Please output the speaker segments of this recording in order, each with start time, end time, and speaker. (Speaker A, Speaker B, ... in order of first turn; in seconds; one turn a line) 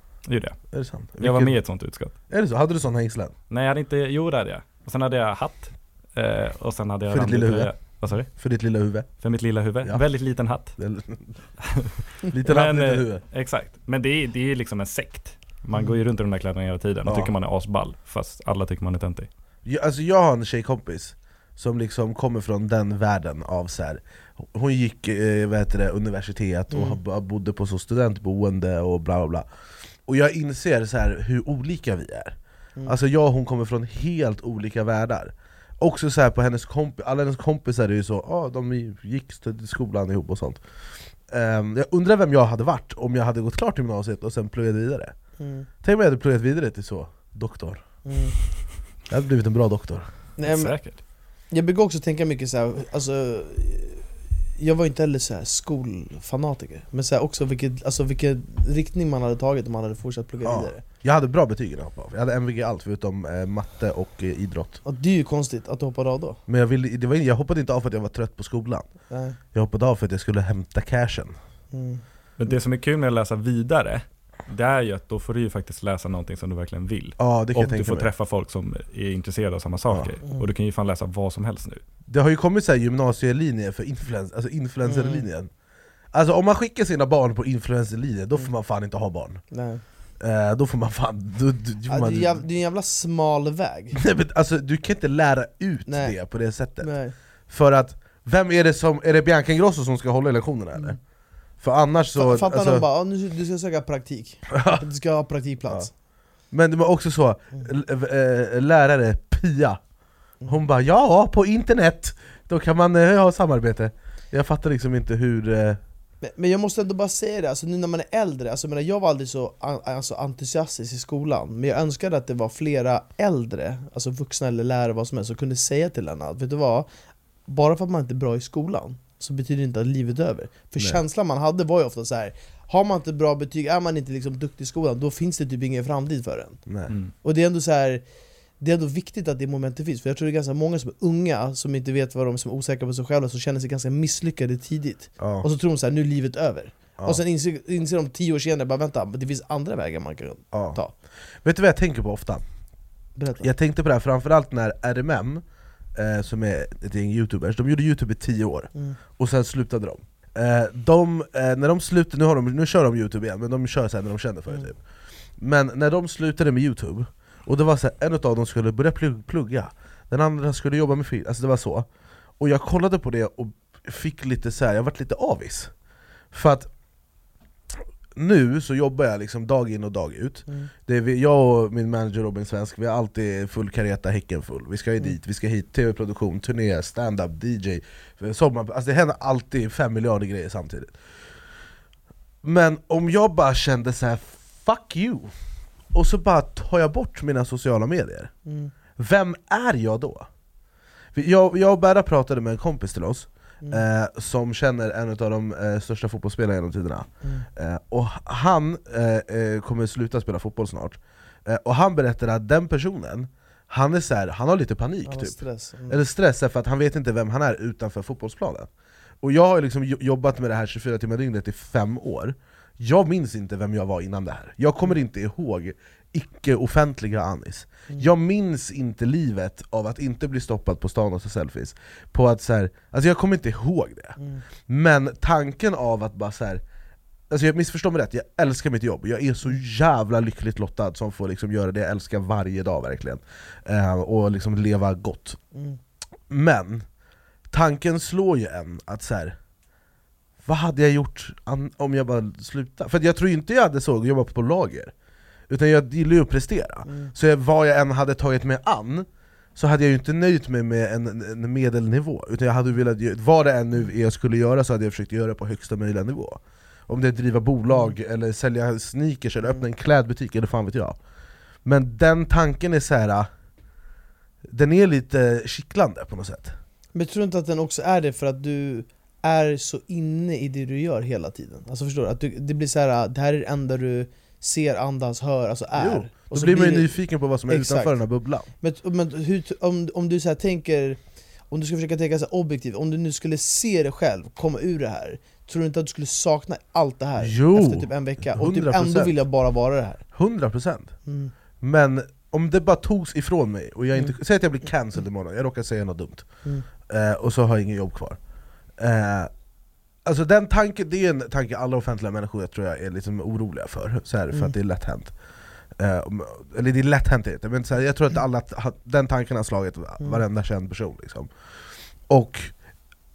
Speaker A: 0.3-0.6
Speaker B: 0.7-1.6
Speaker A: 1.2-2.1
Speaker B: 2.3-3.4
Speaker A: 3.5-8.3
Speaker B: 7.1-7.7
Speaker B: 8.3-9.1
Speaker A: 9.2-10.8
Speaker B: 10.8-11.3
Speaker A: 11.6-11.9
Speaker B: 12.3-13.2
Speaker A: 12.4-19.3
Speaker B: 17.1-17.3
Speaker B: 19.6-29.5
Speaker C: 26.7-27.0
Speaker B: 30.1-40.6
Speaker B: 41.3-45.1
Speaker C: 45.4-45.7
Speaker B: 45.8-47.8
Speaker C: 48.0-48.4
Speaker B: 49.1-50.1
Speaker C: 50.4-50.8
Speaker A: 50.5-51.0
Speaker C: 51.5-54.0
Speaker C: 54.6-60.8
Speaker B: 60.4-64.8
Speaker C: 64.8-66.4
Speaker B: 66.5-68.9
Speaker C: 69.1-69.4
Speaker B: 69.5-71.3
Speaker C: 71.7-72.0
Speaker A: 72.4-81.8
Speaker B: 77.2-78.1
Speaker B: 82.1-85.5
Speaker C: 84.8-85.2
Speaker B: 86.1-89.4
Speaker C: 89.5-89.8
Speaker B: 90.2-92.4
Speaker C: 91.9-94.0
Speaker B: 94.0-96.9
Speaker C: 95.9-96.2
Speaker C: 96.8-97.2
Speaker B: 97.5-101.0
Speaker B: 101.6-102.8
Speaker C: 102.1-105.9
Speaker B: 104.5-104.8
Speaker B: 106.5-109.8
Speaker B: 110.5-115.8
Speaker C: 116.2-126.9
Speaker C: 127.5-136.6
Speaker B: 136.7-136.9
Speaker C: 137.2-138.0
Speaker C: 138.6-150.9
Speaker B: 145.2-145.5
Speaker B: 150.5-150.8
Speaker B: 151.4-152.4
Speaker C: 153.2-153.5
Speaker B: 153.4-155.4
Speaker B: 156.0-164.8
Speaker B: 165.4-171.9
Speaker B: 172.4-175.7
Speaker B: 176.3-176.7
Speaker B: 178.2-191.0
Speaker B: 192.4-195.3
Speaker B: 195.9-198.3
Speaker C: 198.5-198.7
Speaker B: 199.0-200.3
Speaker B: 201.1-218.7
Speaker C: 215.1-216.0
Speaker B: 219.2-236.6
Speaker B: 237.3-245.4
Speaker C: 245.5-245.8
Speaker B: 246.3-246.8
Speaker B: 247.5-249.4
Speaker B: 250.4-254.9
Speaker B: 255.5-271.0
Speaker C: 256.9-257.1
Speaker B: 271.6-273.3
Speaker B: 274.5-276.6
Speaker C: 276.9-287.0
Speaker B: 285.8-288.5
Speaker C: 287.5-287.9
Speaker C: 288.6-291.0
Speaker C: 291.5-300.0
Speaker B: 297.2-299.1
Speaker B: 300.1-300.9
Speaker C: 301.1-301.3
Speaker B: 301.6-306.3
Speaker B: 306.9-308.2
Speaker B: 308.8-309.3
Speaker B: 310.1-315.1
Speaker B: 315.8-321.3
Speaker B: 322.1-322.5